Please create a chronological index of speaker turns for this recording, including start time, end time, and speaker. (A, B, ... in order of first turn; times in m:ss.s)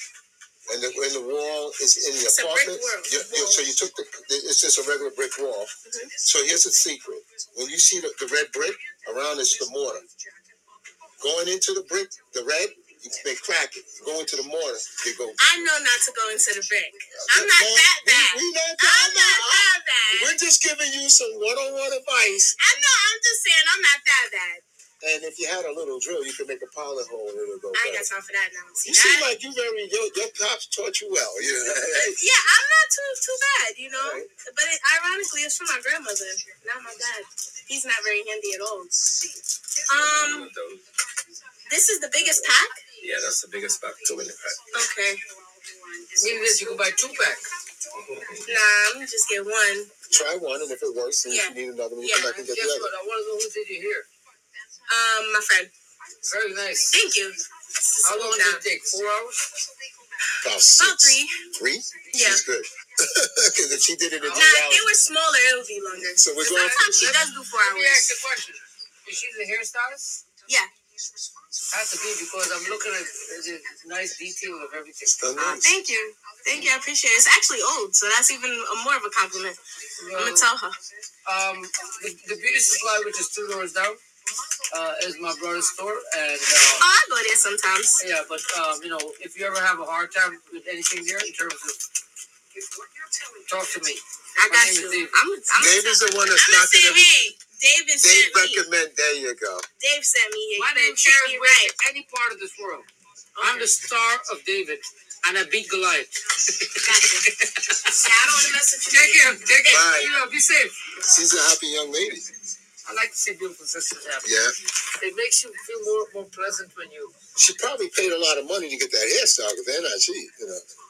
0:00.7-0:10.0 A
0:02.3-0:03.7 B
0:05.8-0:06.1 B
0:11.2-0:15.7 A
0:15.4-0:20.4 B
0:17.3-0:22.8 A
0:22.6-0:24.6 B
0:25.0-0:28.1 A
0:27.7-0:29.3 B
0:28.8-0:32.2 A
0:32.1-0:39.0 B
0:34.0-0:34.3 A
0:39.9-0:40.5 B
0:39.9-0:40.8 C
0:41.7-0:42.8 B
0:43.0-0:44.6 C
0:44.7-0:45.2 B
0:46.2-0:47.4 D
0:47.9-0:48.5 C
0:48.4-0:49.9 B
0:50.1-0:52.9 A
0:51.3-0:52.4 B
0:52.2-0:54.1 D
0:54.9-0:55.7 B
0:56.2-0:57.0 D
0:56.9-0:58.6 B
0:58.0-0:59.4 D
1:00.4-1:04.9 A
1:00.8-1:01.5 B
1:02.1-1:02.4 B
1:04.2-1:04.5 D
1:04.3-1:08.1 B
1:06.2-1:07.2 A
1:06.4-1:10.2 D
1:11.7-1:15.2 D
1:15.2-1:15.7 A
1:15.4-1:19.6 B
1:20.0-1:20.5 D
1:20.1-1:20.7 B
1:21.2-1:24.0 D
1:24.7-1:26.9 D
1:26.8-1:28.0 B
1:28.0-1:31.8 D
1:33.5-1:35.2 D
1:34.4-1:38.6 B
1:35.5-1:37.3 A
1:38.0-1:39.6 A
1:39.8-1:41.7 B
1:40.6-1:42.9 D
1:43.4-1:43.7 B
1:43.4-1:47.9 D
1:46.8-1:47.3 B
1:47.9-1:50.2 B
1:48.9-1:50.8 D
1:49.7-1:50.1 A
1:51.0-1:52.3 A
1:52.8-1:54.4 D
1:54.2-1:54.5 A
1:55.0-1:57.1 D
1:57.4-2:00.6 A